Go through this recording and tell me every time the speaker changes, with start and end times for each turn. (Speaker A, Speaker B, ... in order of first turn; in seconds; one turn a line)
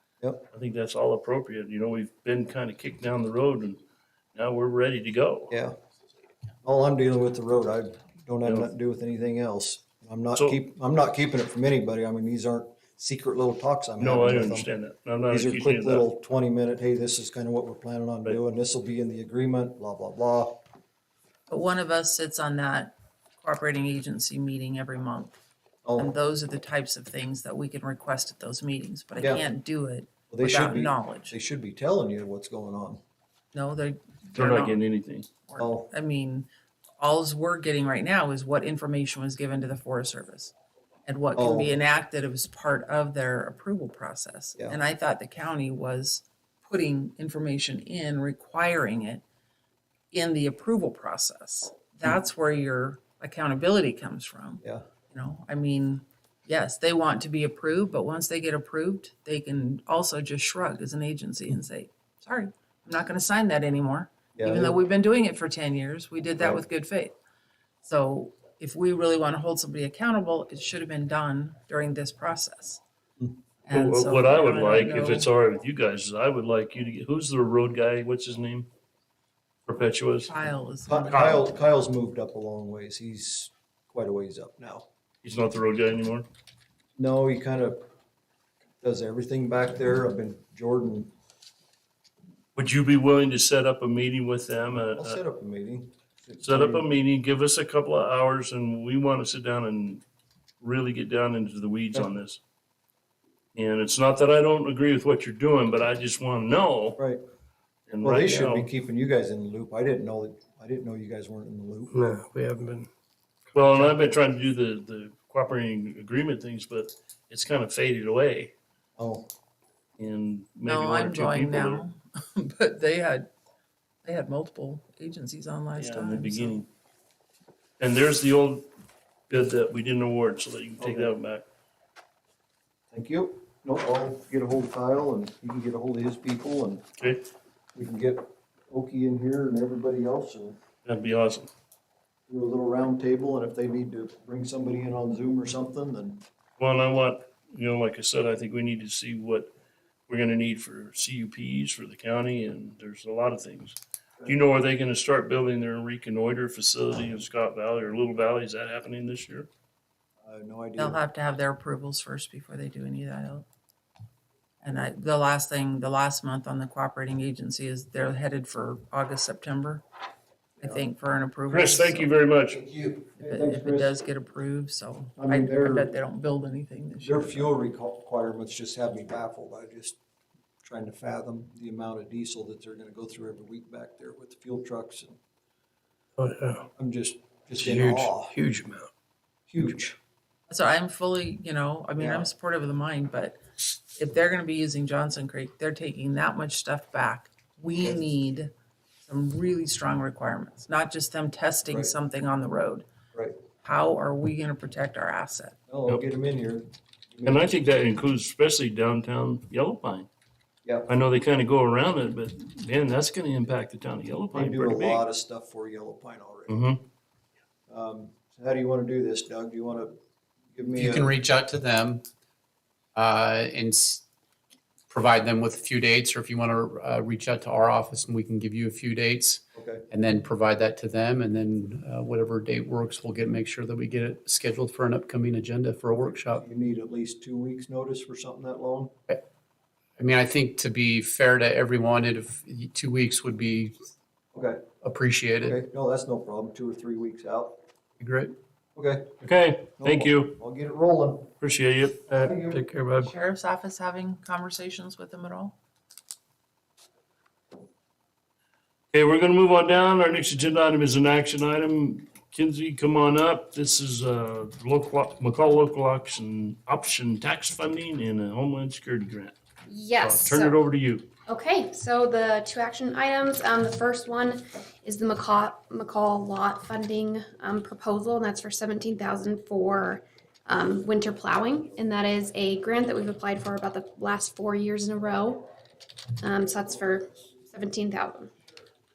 Speaker A: 0.5-3.8
Speaker A: 4.3-5.5
Speaker B: 5.5-5.7
Speaker B: 6.6-14.7
Speaker A: 14.0-16.1
Speaker B: 15.3-20.6
Speaker C: 21.5-25.4
Speaker B: 25.8-26.1
Speaker C: 25.9-31.3
Speaker B: 29.2-29.4
Speaker B: 30.3-33.0
Speaker C: 33.5-34.8
Speaker A: 34.3-35.3
Speaker C: 35.5-36.5
Speaker B: 35.6-35.9
Speaker C: 37.0-40.5
Speaker C: 41.0-49.2
Speaker B: 41.4-41.8
Speaker C: 50.1-67.1
Speaker B: 64.4-64.8
Speaker C: 67.8-72.8
Speaker C: 73.7-75.3
Speaker A: 73.7-78.7
Speaker A: 79.7-80.3
Speaker C: 80.2-81.2
Speaker B: 80.9-84.9
Speaker A: 81.1-81.5
Speaker A: 85.2-86.3
Speaker B: 87.0-87.9
Speaker B: 88.8-91.1
Speaker A: 92.5-95.2
Speaker B: 94.9-96.9
Speaker A: 96.4-100.0
Speaker A: 100.6-102.4
Speaker A: 103.5-107.0
Speaker A: 107.9-108.7
Speaker B: 108.0-111.9
Speaker D: 111.9-112.9
Speaker A: 113.5-118.5
Speaker B: 119.0-119.3
Speaker A: 120.0-121.8
Speaker C: 120.6-123.3
Speaker C: 124.0-126.6
Speaker A: 125.8-126.7
Speaker A: 127.8-128.7
Speaker A: 129.3-131.4
Speaker B: 130.8-131.1
Speaker B: 132.9-136.8
Speaker A: 137.0-137.2
Speaker B: 137.7-140.6
Speaker A: 140.8-141.5
Speaker B: 142.3-146.2
Speaker A: 146.6-149.5
Speaker A: 150.1-159.5
Speaker B: 160.2-161.0
Speaker C: 160.8-163.4
Speaker C: 164.6-169.8
Speaker C: 170.6-172.1
Speaker A: 171.5-172.6
Speaker B: 172.5-174.0
Speaker C: 173.2-177.5
Speaker B: 175.2-176.0
Speaker B: 177.0-180.0
Speaker B: 180.6-185.2
Speaker D: 186.2-186.6
Speaker B: 186.8-188.3
Speaker D: 187.6-188.9
Speaker B: 189.5-189.9
Speaker C: 190.5-193.4
Speaker B: 192.0-192.3
Speaker C: 193.9-198.5
Speaker C: 199.0-202.8
Speaker B: 201.7-201.9
Speaker C: 203.6-205.6
Speaker B: 205.7-207.6
Speaker A: 207.2-210.1
Speaker A: 210.9-215.0
Speaker B: 214.3-216.6
Speaker A: 216.5-216.8
Speaker B: 217.7-220.0
Speaker B: 220.5-221.1
Speaker E: 220.7-222.0
Speaker E: 222.9-224.0
Speaker E: 224.9-236.4
Speaker B: 229.6-229.8
Speaker B: 236.3-238.9
Speaker E: 240.0-243.7
Speaker B: 244.3-244.7
Speaker E: 244.8-245.6
Speaker B: 245.4-247.6
Speaker E: 248.0-248.3
Speaker B: 248.7-249.2
Speaker A: 249.2-250.3
Speaker B: 249.8-251.3
Speaker A: 251.4-252.1
Speaker D: 252.1-253.1
Speaker B: 252.2-252.6
Speaker C: 252.9-255.5
Speaker A: 258.9-269.3
Speaker F: 269.7-270.6
Speaker A: 270.0-271.1
Speaker F: 271.3-285.4
Speaker F: 286.2-288.3